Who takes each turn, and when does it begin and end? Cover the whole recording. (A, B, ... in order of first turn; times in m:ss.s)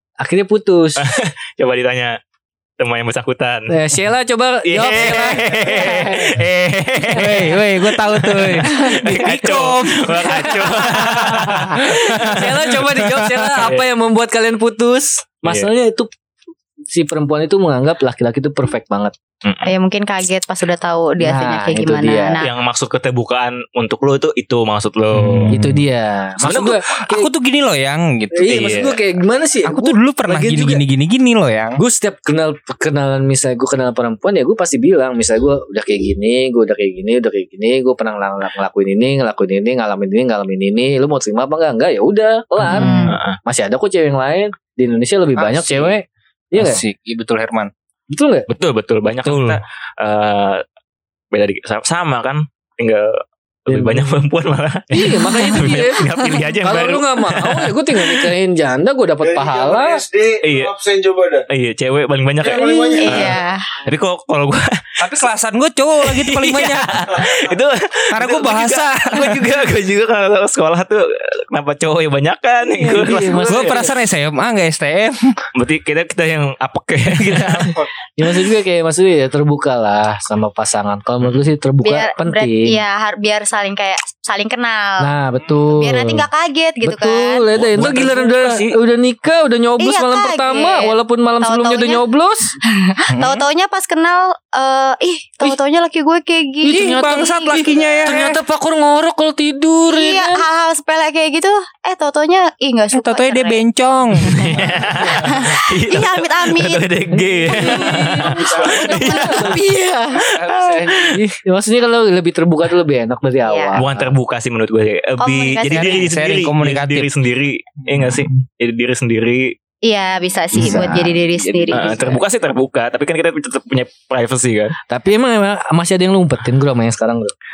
0:00.2-0:01.0 A
0:01.0-0:02.2 B
0:02.8-0:03.8 B
0:03.7-0:06.4 A
0:04.6-0:12.6 B
0:07.1-0:13.6 C
0:07.2-0:07.4 A
0:08.6-0:09.2 A
0:10.1-0:16.1 A
0:13.5-0:13.9 B
0:16.9-0:19.2 A
0:19.4-0:19.7 B
0:19.6-0:22.5 D
0:21.2-0:22.4 A
0:22.4-0:25.7 B
0:25.1-0:25.8 C
0:25.5-0:27.3 A
0:26.4-0:26.8 B
0:27.0-0:28.9 C
0:28.4-0:30.8 A
0:28.4-0:29.0 B
0:29.7-0:31.8 C
0:31.8-0:46.8 A
0:42.6-0:43.1 C
0:42.7-0:43.2 D
0:43.1-0:43.4 B
0:45.4-0:45.9 C
0:46.6-0:47.7 C
0:48.1-0:48.5 A
0:48.5-0:50.6 B
0:49.2-0:49.6 C
0:51.3-0:53.1 B
0:53.7-0:58.3 B
0:53.7-0:54.2 A
0:54.9-0:56.1 A
0:55.0-0:56.2 D
0:56.6-1:00.0 A
0:59.2-1:01.5 E
1:00.4-1:00.7 B
1:01.5-1:04.8 B
1:02.4-1:03.4 E
1:02.5-1:03.2 A
1:02.6-1:03.7 D
1:05.0-1:07.1 C
1:06.0-1:13.8 B
1:08.1-1:09.5 C
1:12.7-1:13.9 A
1:13.0-1:15.3 C
1:15.6-1:17.9 B
1:17.2-1:17.8 C
1:18.2-1:22.8 A
1:21.8-1:25.1 D
1:25.0-1:26.2 A
1:25.7-1:27.4 D
1:26.8-1:32.6 A
1:27.5-1:28.8 B
1:29.8-1:32.0 D
1:32.8-1:38.2 D
1:33.1-1:33.4 C
1:36.6-1:40.4 A
1:36.7-1:38.4 C
1:39.9-1:43.6 D
1:42.9-1:45.4 C
1:44.2-1:49.6 B
1:44.3-1:50.2 D
1:47.1-1:49.6 A
1:50.4-1:51.0 C
1:50.5-1:54.1 A
1:50.8-1:51.1 B
1:53.4-1:53.8 D
1:53.8-1:59.6 B
1:55.2-1:56.1 D
1:55.7-1:57.1 C
1:59.8-2:02.0 D
2:00.5-2:01.2 A
2:00.6-2:02.2 C
2:01.7-2:04.8 B
2:04.9-2:07.3 A